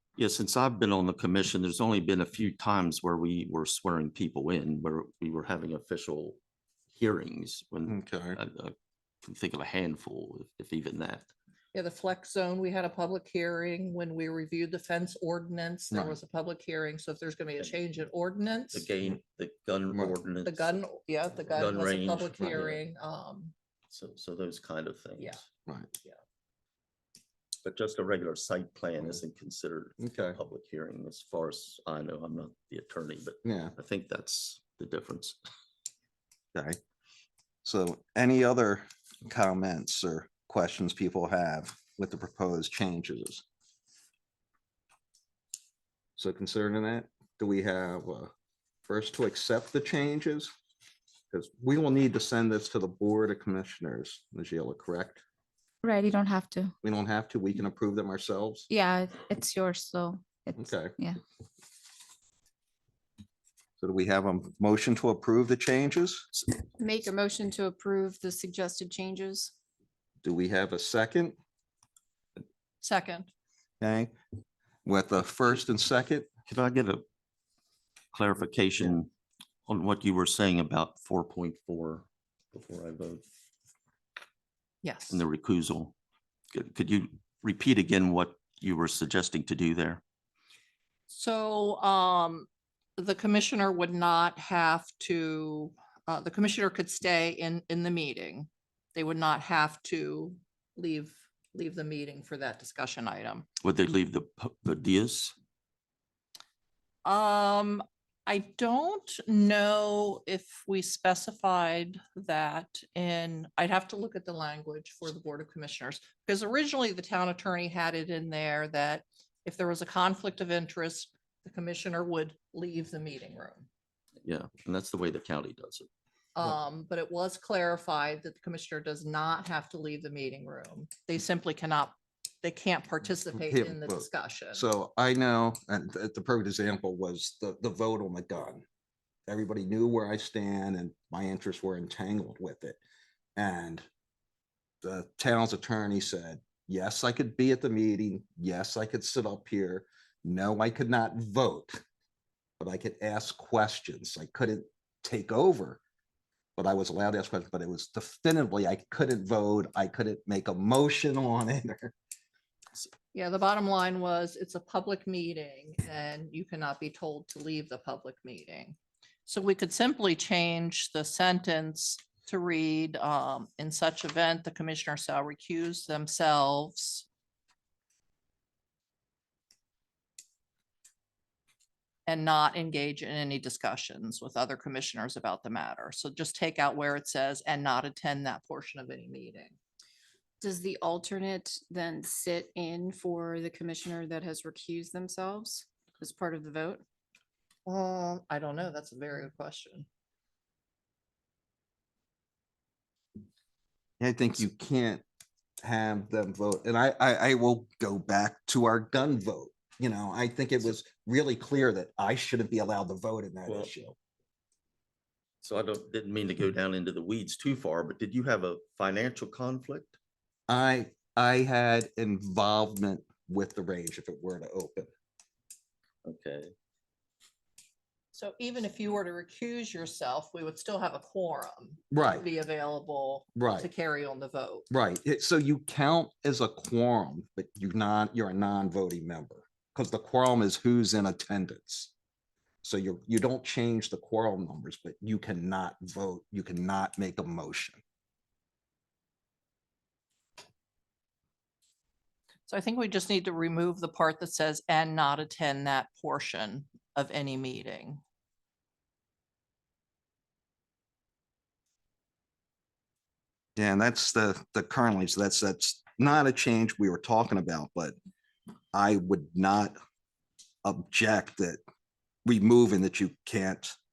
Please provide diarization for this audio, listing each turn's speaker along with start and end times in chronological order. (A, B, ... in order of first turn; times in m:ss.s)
0:00.2-0:06.4 A
0:06.9-0:11.3 A
0:07.9-0:08.4 B
0:11.7-0:18.9 C
0:15.9-0:16.2 B
0:18.7-0:20.8 A
0:20.4-0:23.5 C
0:21.5-0:22.8 A
0:23.9-0:25.4 A
0:27.6-0:35.4 A
0:30.0-0:30.4 B
0:33.4-0:33.7 B
0:37.6-0:43.4 B
0:46.2-0:48.3 B
0:48.9-0:50.5 B
0:51.3-0:55.2 B
0:55.8-0:56.7 D
0:56.8-0:58.7 B
0:58.7-1:01.2 D
1:00.6-1:01.0 B
1:03.8-1:06.3 B
1:06.8-1:09.5 E
1:10.2-1:11.4 B
1:12.8-1:13.3 C
1:13.8-1:14.1 B
1:14.8-1:16.3 B
1:16.5-1:17.0 A
1:18.1-1:19.1 A
1:19.7-1:23.2 A
1:24.8-1:25.2 C
1:25.1-1:25.9 A
1:26.5-1:30.0 A
1:31.1-1:43.5 C
1:43.6-1:45.3 A
1:47.0-2:03.7 C
2:04.2-2:05.9 A
2:06.4-2:14.7 C
2:13.3-2:18.6 B
2:19.3-2:22.8 B
2:23.4-2:23.8 B
2:24.8-2:31.8 B
2:32.6-2:35.8 B
2:36.6-2:41.9 B
2:43.1-2:57.1 C
3:02.1-3:09.6 C
3:10.4-3:16.8 E
3:17.7-3:19.9 C
3:24.0-3:25.0 B
3:25.6-3:34.0 B
3:33.5-3:33.7 A
3:35.4-3:40.0 A
3:40.5-3:44.9 B
3:46.0-3:46.5 A
3:48.1-3:54.7 C
3:51.9-3:52.2 B
3:53.4-3:53.7 B
3:54.7-4:01.9 B
4:02.6-4:07.8 B
4:12.5-4:18.0 C
4:23.6-4:28.0 B
4:28.7-4:29.8 B
4:30.6-4:31.6 B
4:32.2-4:33.8 B